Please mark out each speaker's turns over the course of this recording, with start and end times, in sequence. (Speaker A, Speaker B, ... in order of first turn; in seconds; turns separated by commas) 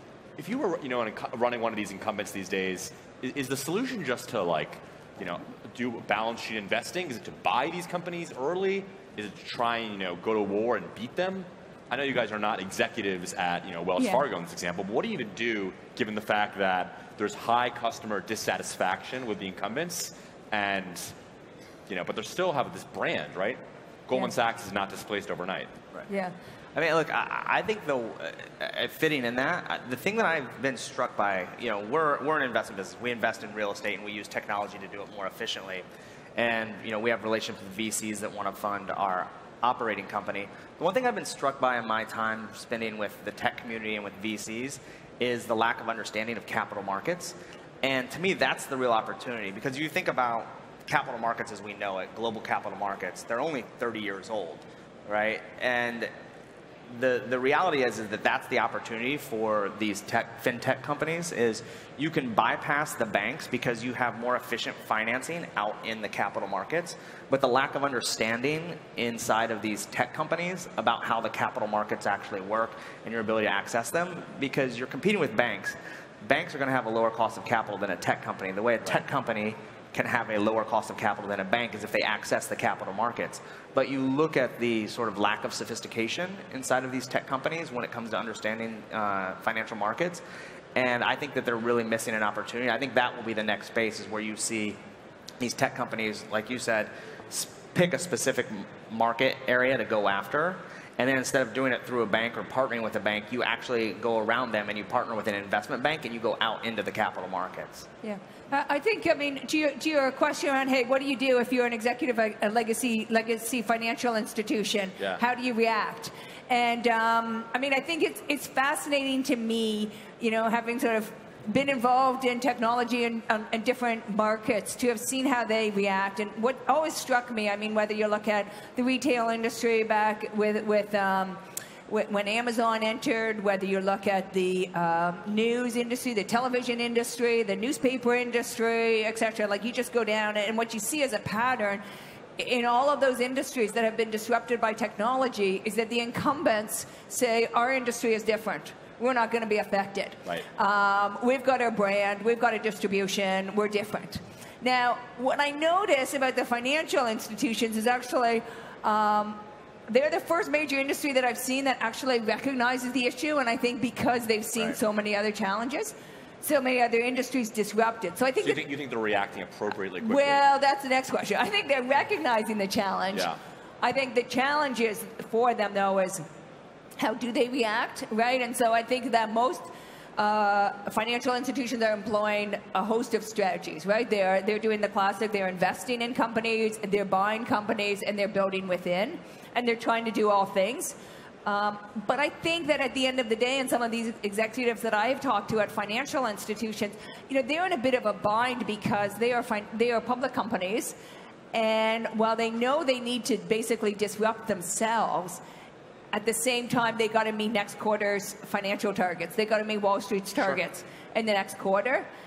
Speaker A: 0.4-21.1, Speaker B: 14.0-14.2, Speaker A: 21.9-25.7, Speaker B: 26.1-26.3, Speaker C: 26.8-35.9, Speaker C: 36.4-56.1, Speaker C: 56.9-90.2, Speaker C: 90.8-94.8, Speaker C: 95.4-107.9, Speaker B: 108.0-141.8, Speaker B: 142.4-168.6, Speaker A: 168.4-170.4, Speaker B: 170.0-176.2, Speaker A: 173.1-173.4, Speaker B: 177.0-201.0, Speaker B: 201.5-205.4, Speaker B: 206.1-212.1